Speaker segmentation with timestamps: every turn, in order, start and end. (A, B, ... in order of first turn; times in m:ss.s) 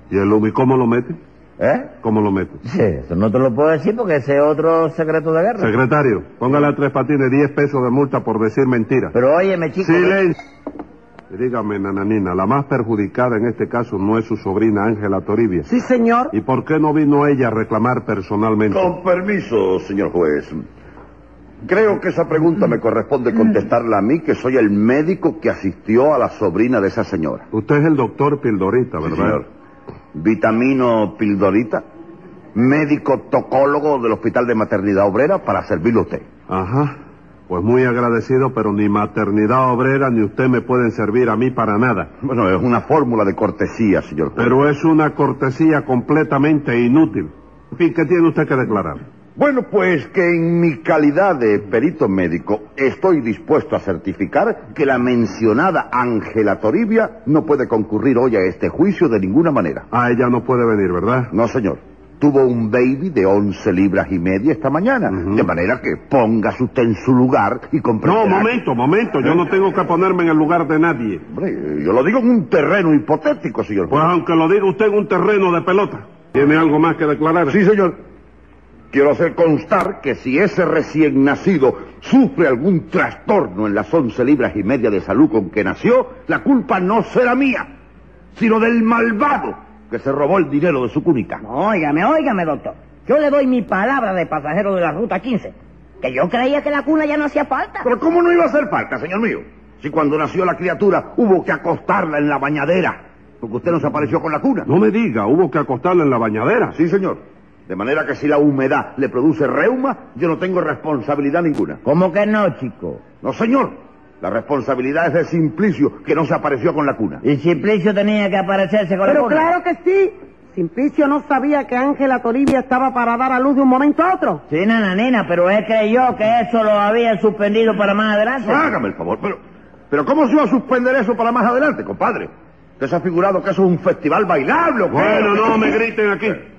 0:00.1-0:01.2 A
0:01.6-0:01.9 B
0:02.0-0:02.6 A
0:02.6-0:05.7 B
0:05.6-0:09.1 A
0:09.1-0:10.3 B
0:09.8-0:10.4 A
0:11.3-0:15.6 A
0:15.6-0:16.3 C
0:16.3-0:18.7 A
0:18.7-0:20.6 D
0:21.6-0:27.4 D
0:27.5-0:29.4 A
0:29.0-0:29.4 D
0:30.1-0:31.8 D
0:32.5-0:36.2 D
0:36.5-0:36.9 A
0:37.5-0:42.1 A
0:42.2-0:44.7 D
0:44.4-0:49.0 A
0:49.4-0:59.8 D
0:59.9-1:01.3 A
1:01.3-1:09.5 D
1:08.1-1:11.2 A
1:11.3-1:14.1 D
1:13.9-1:17.5 A
1:17.4-1:18.0 D
1:18.9-1:27.7 D
1:28.3-1:31.4 D
1:31.4-1:37.9 E
1:37.8-1:44.7 D
1:44.7-1:46.7 A
1:46.7-1:51.8 D
1:51.8-1:53.0 B
1:53.2-1:57.2 D
1:57.2-1:59.5 B
1:59.0-2:04.4 C
2:04.5-2:08.7 B
2:08.4-2:15.8 D
2:14.9-2:16.4 A